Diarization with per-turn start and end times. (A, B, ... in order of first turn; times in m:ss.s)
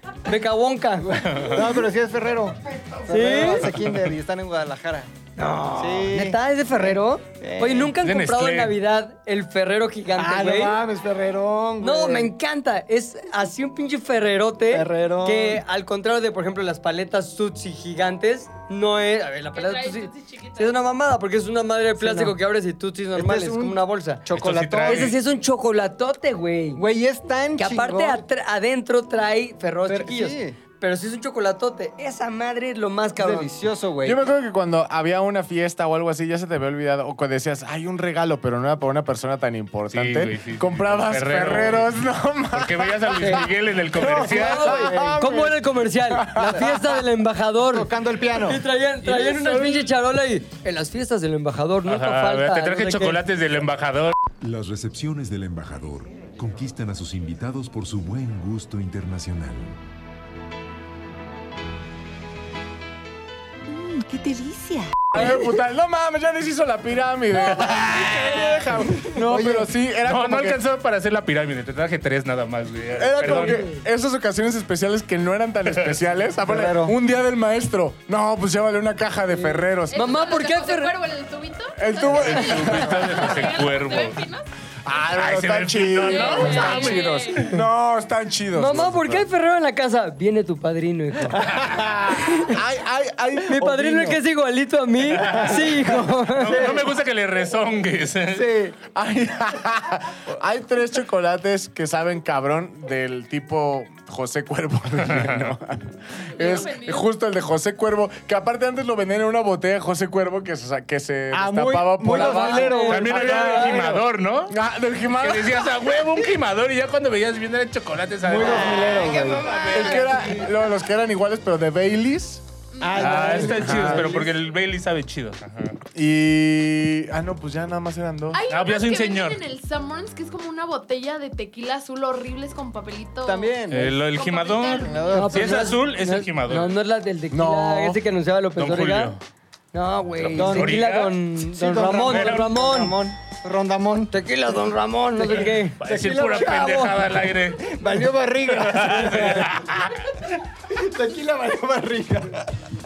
0:00.2-0:01.1 A
0:01.0-0:05.1 B
0:01.2-0:01.7 C
0:03.1-0:03.7 A
0:05.4-0:10.8 A
0:05.7-0:07.9 B
0:08.0-0:08.8 C
0:10.2-0:12.3 B
0:11.8-0:24.2 A
0:14.7-0:15.6 B
0:19.5-0:20.8 D
0:22.0-0:22.4 B
0:23.1-0:25.2 B
0:24.3-0:25.2 C
0:24.8-0:26.8 A
0:26.8-0:28.2 B
0:27.6-0:33.5 A
0:29.9-0:30.6 B
0:33.2-0:34.2 B
0:34.0-0:45.6 E
0:39.9-0:42.0 C
0:42.5-0:44.9 C
0:44.0-0:45.5 B
0:44.0-0:53.2 A
0:46.1-0:46.8 E
0:46.4-0:46.7 B
0:47.7-0:48.6 B
0:49.0-0:49.9 C
0:51.8-0:54.2 C
0:54.4-0:59.8 F
1:05.1-1:10.6 E
1:07.4-1:08.8 C
1:09.1-1:09.7 B
1:10.0-1:13.6 C
1:12.9-1:20.0 E
1:13.2-1:13.8 A
1:15.7-1:16.0 C
1:16.4-1:16.9 B
1:19.3-1:21.0 A
1:19.9-1:24.4 D
1:21.8-1:23.3 E
1:22.1-1:24.2 C
1:24.8-1:29.3 E
1:25.1-1:27.5 C
1:26.0-1:27.5 D
1:28.5-1:31.4 A
1:31.3-1:32.2 B
1:32.2-1:34.2 E
1:33.5-1:36.7 A
1:35.1-1:36.9 B
1:35.2-1:35.6 C
1:36.3-1:38.5 C
1:38.3-1:38.8 B
1:38.9-1:53.8 E
1:45.0-1:45.5 C
1:46.4-1:47.0 D
1:51.3-1:54.0 B
1:52.0-1:53.8 A
1:52.9-1:54.6 C
1:54.5-1:55.7 E
1:55.1-2:00.2 C
1:58.2-1:59.9 B
1:59.7-2:02.4 E
2:02.8-2:03.6 D
2:02.8-2:04.3 B
2:03.0-2:05.8 C
2:03.3-2:04.2 E
2:05.9-2:08.4 E
2:08.3-2:15.6 D
2:08.5-2:09.4 C
2:13.2-2:14.0 B
2:13.7-2:16.7 C
2:14.8-2:15.7 B
2:15.1-2:19.1 A
2:17.3-2:18.0 E
2:18.6-2:19.2 C
2:19.7-2:23.0 A
2:20.2-2:21.2 C
2:20.3-2:24.1 B
2:22.0-2:22.5 C
2:24.1-2:25.8 A
2:25.2-2:29.7 B
2:25.8-2:27.7 C
2:28.4-2:29.9 C
2:30.7-2:32.5 B